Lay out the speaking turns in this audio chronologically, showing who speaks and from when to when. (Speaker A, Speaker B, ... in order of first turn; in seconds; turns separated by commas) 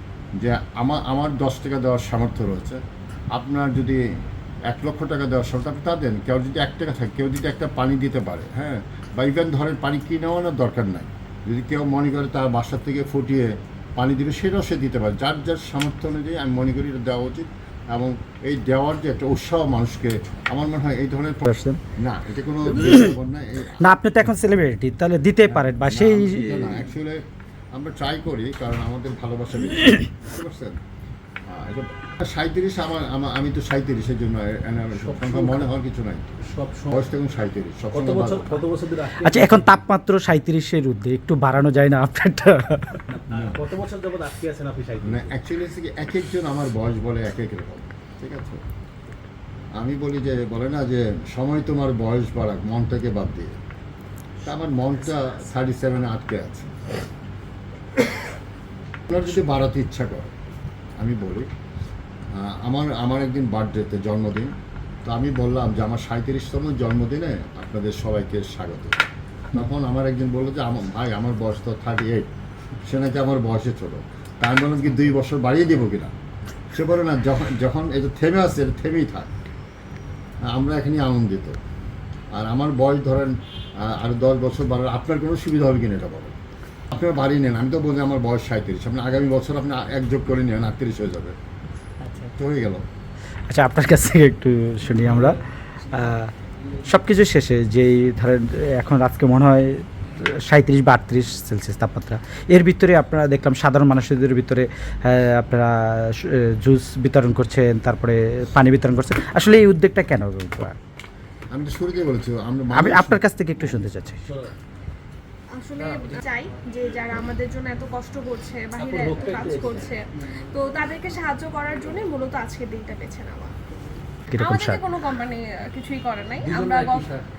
Speaker A: 0.4-2.8, Speaker A: 3.3-4.0, Speaker A: 4.7-23.9, Speaker B: 21.4-21.8, Speaker B: 23.8-26.8, Speaker A: 25.5-30.8, Speaker A: 31.5-36.3, Speaker C: 35.0-35.7, Speaker C: 36.5-36.9, Speaker A: 36.9-38.6, Speaker C: 37.9-39.8, Speaker B: 39.2-43.0, Speaker C: 43.1-45.3, Speaker A: 43.3-43.6, Speaker A: 45.0-48.6, Speaker A: 49.8-53.6, Speaker A: 54.4-56.7, Speaker A: 59.1-60.3, Speaker A: 61.0-61.5, Speaker A: 62.3-64.5, Speaker A: 65.0-72.3, Speaker A: 72.8-76.1, Speaker A: 76.7-79.3, Speaker A: 80.4-81.6, Speaker A: 82.3-86.3, Speaker A: 86.9-91.3, Speaker B: 92.0-92.3, Speaker A: 92.3-92.8, Speaker B: 93.5-96.3, Speaker C: 95.1-95.3, Speaker B: 96.8-110.8, Speaker A: 111.5-113.8, Speaker B: 112.7-114.2, Speaker C: 114.2-114.5, Speaker D: 115.5-123.5, Speaker C: 115.8-116.2, Speaker C: 118.8-120.0, Speaker B: 124.3-124.8, Speaker D: 124.3-127.1, Speaker C: 126.4-127.2